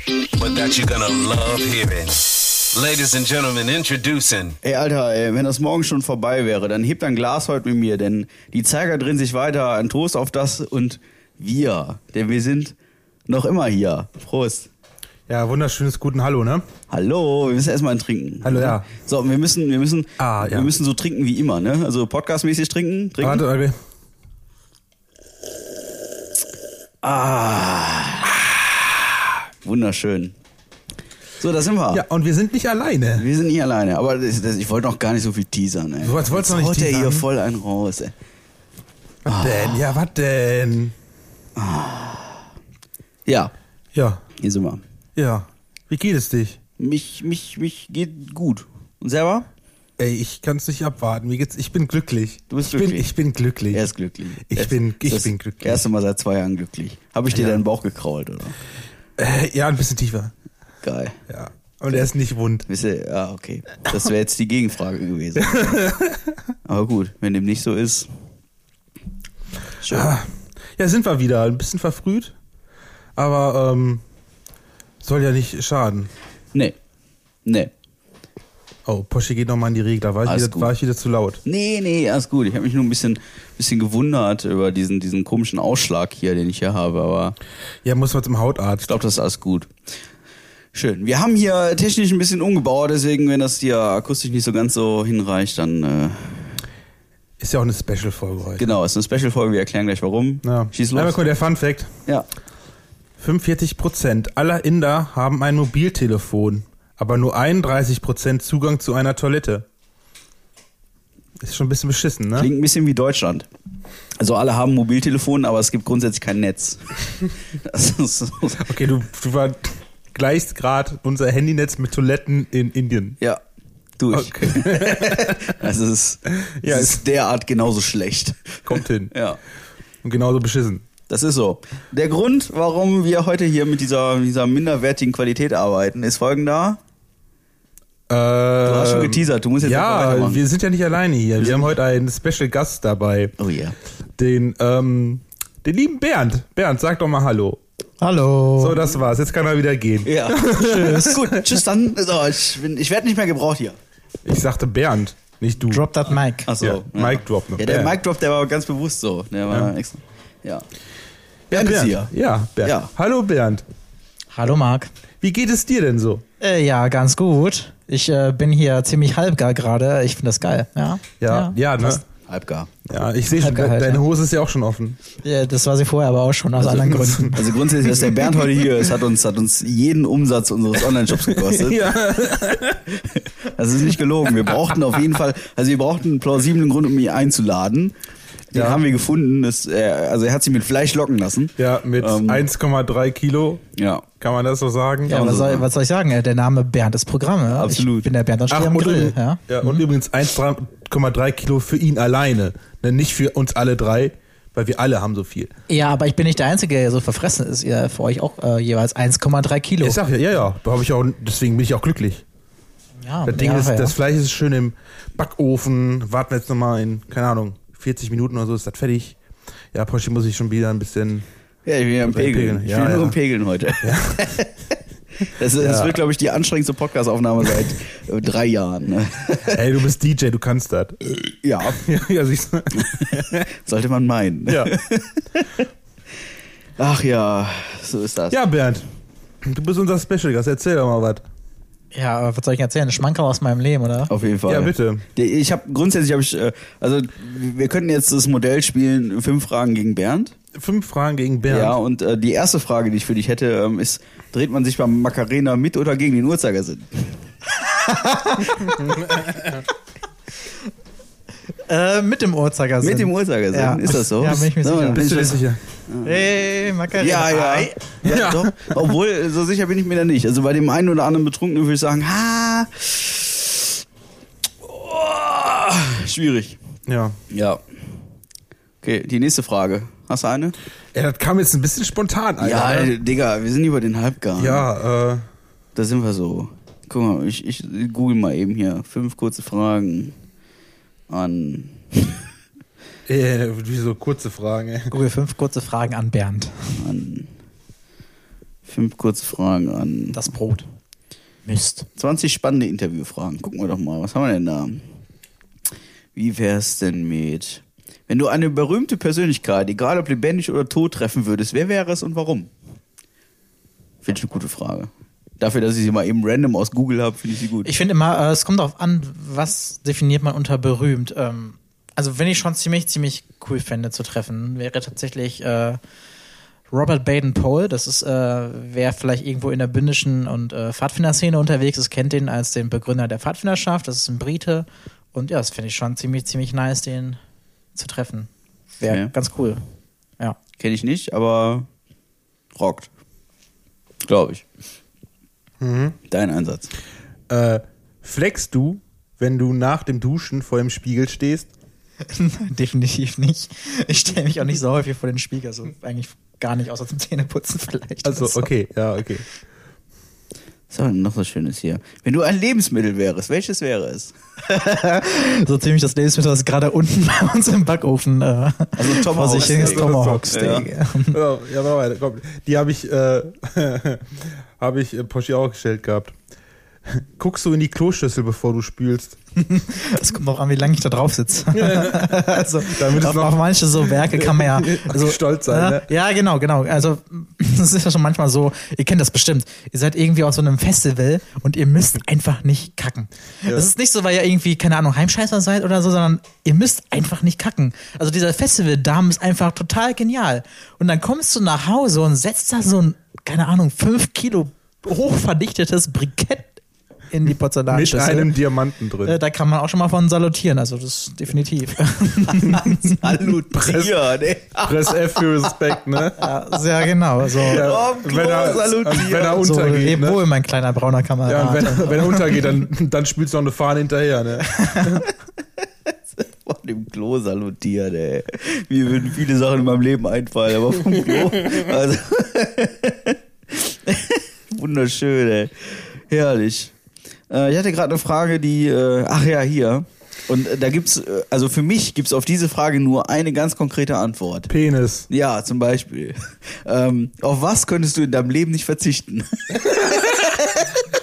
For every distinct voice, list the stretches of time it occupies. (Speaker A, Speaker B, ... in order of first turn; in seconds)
Speaker A: 0.3-4.6
Speaker B: 4.6-12.8, 13.3-14.7, 16.9-23.4, 27.0-30.4, 31.4-32.0, 33.2-38.1, 39.3-39.8, 41.6-42.5, 43.3-43.5, 44.4-44.8, 46.8-49.5, 52.5-53.1, 53.7-58.6, 60.8-61.2, 62.7-65.6, 66.7-68.1, 69.8-70.1, 77.5-77.7, 80.2-80.7, 81.5-87.4, 88.9-89.7, 90.7-96.6, 98.6-101.2, 112.4-113.5, 114.2-118.7, 124.0-129.4, 131.1-136.8, 138.7-140.4, 141.4-141.7, 143.4-143.8, 150.1-153.8, 156.5-160.7, 161.5-162.1, 162.6-162.9, 172.3-172.7, 177.3-182.0, 183.1-187.9, 188.5-192.5, 193.8-194.1, 195.1-195.7, 197.5-198.1, 221.7-224.5, 225.2-229.6, 231.4-231.8, 232.8-235.7, 236.8-238.4, 244.1-250.3, 251.5-257.2, 262.8-266.3, 267.0-273.7, 274.6-276.6, 277.3-277.6, 278.8-280.6, 282.4-284.7, 285.8-290.2, 291.1-292.2, 296.8-297.3, 298.7-300.3, 302.0-304.9, 306.1-312.5, 314.0-317.7, 338.9-339.1, 340.6-341.7, 342.6-342.9, 344.1-344.5, 346.1-346.7, 360.7-364.1, 368.8-370.7, 413.0-415.6, 417.4-419.5, 426.2-436.7, 437.3-444.5, 445.1-450.8
Speaker C: 15.3-16.6, 18.4-18.9, 20.2-20.7, 23.2-23.8, 31.9-33.3, 36.0-37.3, 39.2-41.0, 43.9-44.2, 45.2-46.6, 50.0-53.9, 54.5-55.9, 57.3-57.6, 59.2-60.3, 61.3-62.7, 65.4-66.4, 69.9-72.3, 73.2-74.0, 75.0-76.1, 78.9-81.4, 87.8-89.0, 97.4-98.7, 100.4-101.9, 103.2-109.7, 111.4-112.5, 118.6-123.2, 124.1-125.6, 126.3-127.0, 128.7-129.1, 130.0-130.8, 138.1-143.3, 144.2-147.6, 148.6-151.4, 154.2-155.9, 156.6-158.0, 161.5-163.7, 165.2-166.2, 171.2-172.0, 172.9-175.0, 176.6-178.9, 181.2-182.8, 188.5-188.8, 191.6-193.6, 194.2-195.2, 198.5-205.5, 209.8-212.2, 213.3-219.2, 219.7-221.2, 222.0-223.2, 223.8-224.4, 225.6-226.0, 229.4-233.5, 234.5-234.7, 238.3-238.8, 239.4-241.2, 244.5-245.1, 250.6-251.8, 264.9-265.6, 268.0-268.9, 276.9-277.2, 280.9-282.9, 284.4-285.3, 293.1-294.9, 345.6-346.0, 347.3-351.5, 358.0-359.2, 369.1-376.2, 376.9-379.2, 381.5-385.9, 407.7-409.2, 413.2-413.9, 414.6-416.3, 417.5-420.2, 421.3-425.0, 444.5-445.1
Speaker D: 148.0-148.8, 155.7-156.5, 164.3-164.9, 166.4-172.0, 173.3-174.0, 175.2-177.6, 195.1-199.8, 205.7-210.0, 213.0-213.9, 241.9-244.1, 257.5-259.6, 261.5-265.0, 266.0-267.8, 294.9-296.8, 300.1-300.7, 301.5-301.9, 317.6-325.8, 326.7-337.2, 337.8-339.6, 352.1-358.5, 364.4-371.2, 379.5-408.4, 409.0-413.5, 416.2-417.7, 419.3-422.5, 424.4-425.1